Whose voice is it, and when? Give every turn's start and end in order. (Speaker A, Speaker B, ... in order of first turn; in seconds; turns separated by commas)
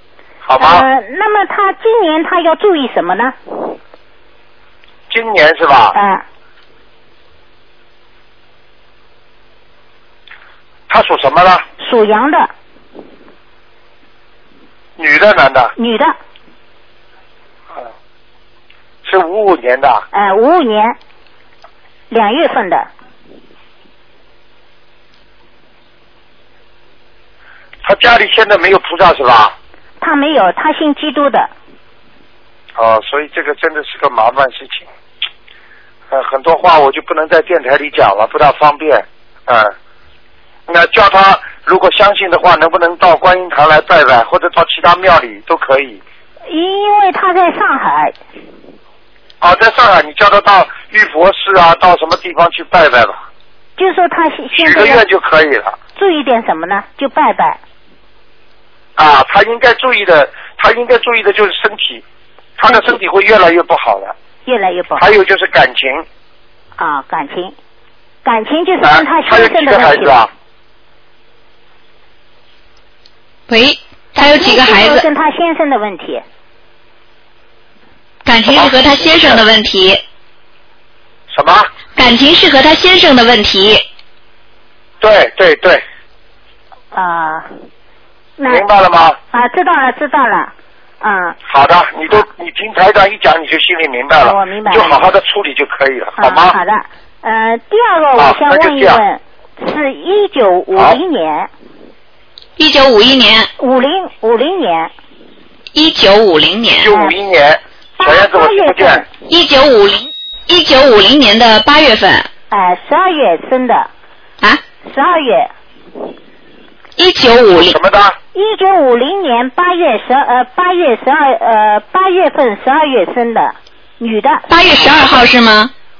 Speaker A: 0.4-0.8, Speaker B: 0.6-3.7, Speaker A: 5.1-6.0, Speaker B: 5.9-6.2, Speaker A: 10.9-11.7, Speaker B: 11.8-12.5, Speaker A: 15.0-15.7, Speaker B: 15.8-16.1, Speaker A: 19.0-20.1, Speaker B: 20.1-21.0, Speaker B: 22.1-22.9, Speaker A: 27.8-29.5, Speaker B: 30.0-31.5, Speaker A: 32.8-34.9, Speaker A: 36.1-39.7, Speaker A: 40.7-46.0, Speaker B: 46.5-48.2, Speaker A: 49.4-53.2, Speaker B: 53.8-55.0, Speaker A: 54.5-55.8, Speaker B: 56.0-57.6, Speaker A: 59.0-62.0, Speaker A: 62.6-64.1, Speaker B: 62.6-63.0, Speaker B: 64.5-65.1, Speaker A: 65.0-66.0, Speaker B: 66.8-67.5, Speaker B: 68.2-70.2, Speaker A: 68.8-70.3, Speaker C: 73.5-75.0, Speaker B: 74.2-76.2, Speaker C: 78.2-80.0, Speaker A: 78.5-79.4, Speaker A: 81.3-81.7, Speaker C: 81.9-83.8, Speaker A: 85.0-85.8, Speaker B: 86.9-87.5, Speaker B: 88.4-88.7, Speaker A: 88.5-89.2, Speaker B: 89.3-91.4, Speaker A: 91.5-96.6, Speaker B: 94.2-95.0, Speaker B: 96.2-101.5, Speaker A: 98.2-99.0, Speaker C: 102.6-103.5, Speaker B: 103.6-104.9, Speaker C: 105.7-106.9, Speaker A: 106.8-109.0, Speaker B: 106.9-107.1, Speaker B: 108.0-109.1, Speaker C: 109.3-112.3, Speaker B: 112.5-113.9, Speaker B: 114.8-115.5, Speaker C: 117.0-117.8, Speaker A: 117.6-118.2, Speaker B: 118.3-124.5, Speaker C: 124.5-125.7